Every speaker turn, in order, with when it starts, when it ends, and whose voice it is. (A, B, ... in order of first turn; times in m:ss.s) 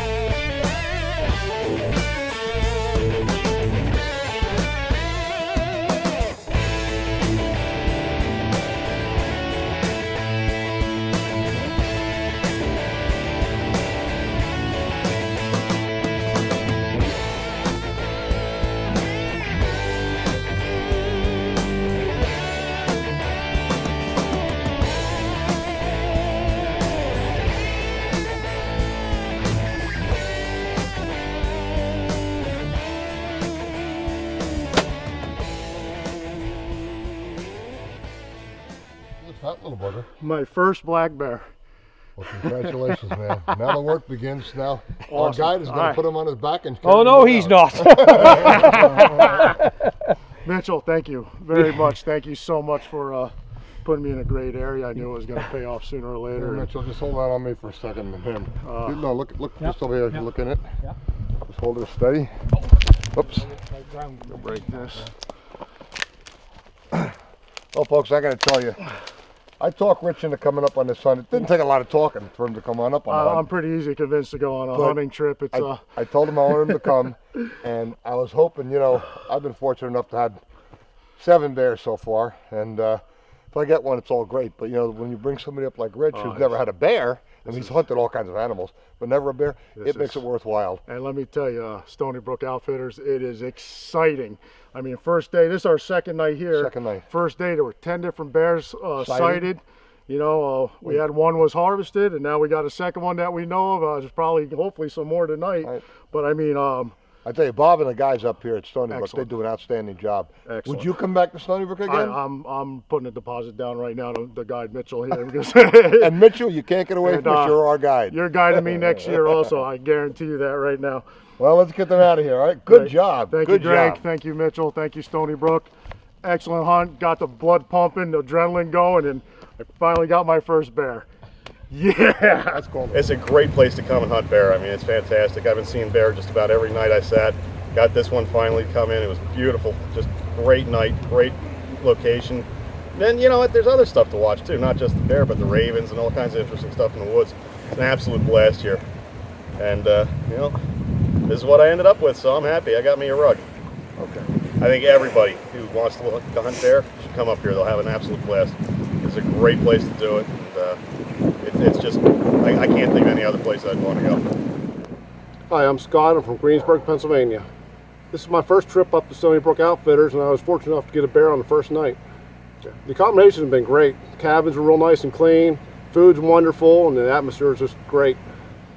0:39.2-0:40.1 A
0:40.2-0:41.5 B
0:42.2-0:49.6 A
0:42.4-0:42.7 B
0:45.1-0:46.0 B
0:46.8-0:49.6 B
0:50.4-0:53.3 B
0:53.8-0:56.7 B
0:56.3-1:00.6 A
0:58.6-0:59.0 B
1:01.4-1:02.3 A
1:03.1-1:03.4 A
1:03.3-1:05.1 B
1:04.5-1:05.0 A
1:07.7-1:08.8 A
1:09.6-1:13.5 A
1:13.1-1:15.8 B
1:14.7-1:20.4 A
1:21.2-1:30.8 A
1:26.1-1:26.5 B
1:29.8-1:30.2 B
1:30.9-1:46.9 B
1:36.5-1:37.0 A
1:39.0-1:39.5 A
1:47.2-1:52.2 A
1:48.9-1:49.3 B
1:50.4-1:50.9 B
1:51.8-1:56.2 B
1:55.9-1:59.4 A
1:57.0-2:01.0 B
2:01.4-2:04.0 A
2:02.7-2:05.7 B
2:06.2-2:11.1 B
2:11.7-2:12.6 B
2:12.5-2:13.2 A
2:12.9-2:28.8 C
2:29.6-2:30.6 C
2:31.3-2:33.4 C
2:34.0-2:34.3 A
2:34.6-2:40.8 C
2:41.4-2:44.3 C
2:45.5-2:47.4 D
2:48.1-2:52.0 D
2:52.6-2:58.2 D